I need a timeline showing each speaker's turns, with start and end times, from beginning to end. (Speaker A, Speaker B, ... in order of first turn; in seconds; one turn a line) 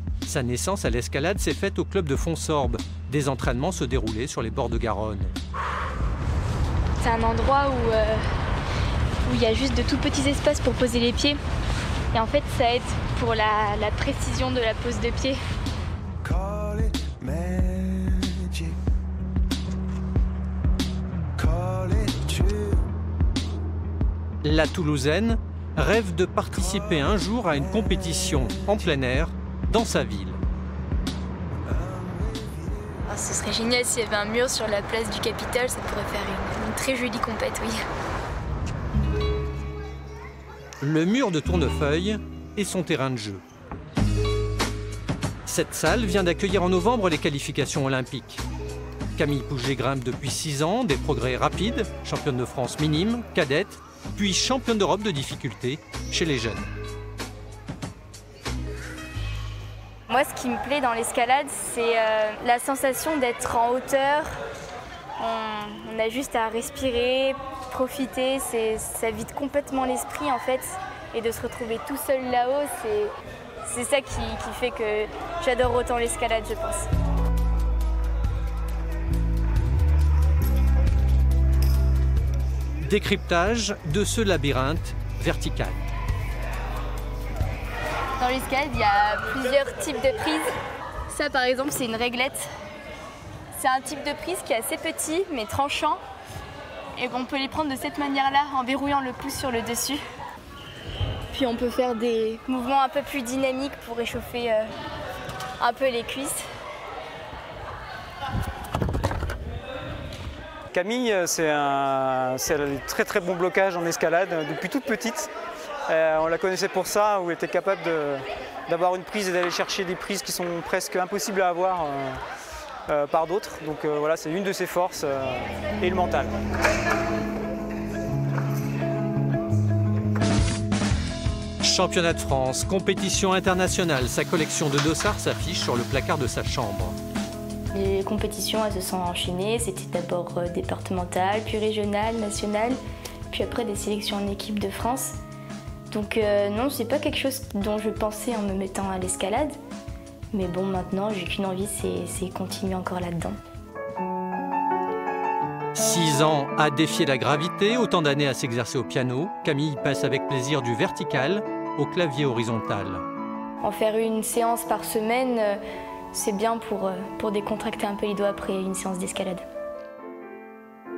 Speaker A: 0.2-5.3
Speaker B: 7.0-8.3
Speaker B: 9.2-11.4
Speaker B: 12.1-15.4
Speaker A: 24.4-30.4
Speaker B: 33.1-37.8
Speaker A: 40.8-43.4
Speaker A: 45.5-48.4
Speaker A: 49.1-56.7
Speaker B: 60.1-64.3
Speaker B: 65.2-73.1
Speaker B: 73.6-76.9
Speaker A: 82.8-85.8
Speaker B: 88.2-90.5
Speaker B: 91.1-92.5
Speaker B: 93.5-96.0
Speaker B: 97.0-100.0
Speaker B: 101.3-104.7
Speaker B: 105.6-106.4
Speaker C: 110.7-115.3
Speaker C: 115.9-122.2
Speaker C: 122.9-126.3
Speaker A: 131.6-137.0
Speaker B: 137.7-142.8
Speaker B: 143.3-145.1
Speaker B: 145.9-149.5
Speaker B: 150.3-153.4
Speaker A: 155.7-163.0
Speaker B: 163.6-165.6
Speaker B: 166.1-169.4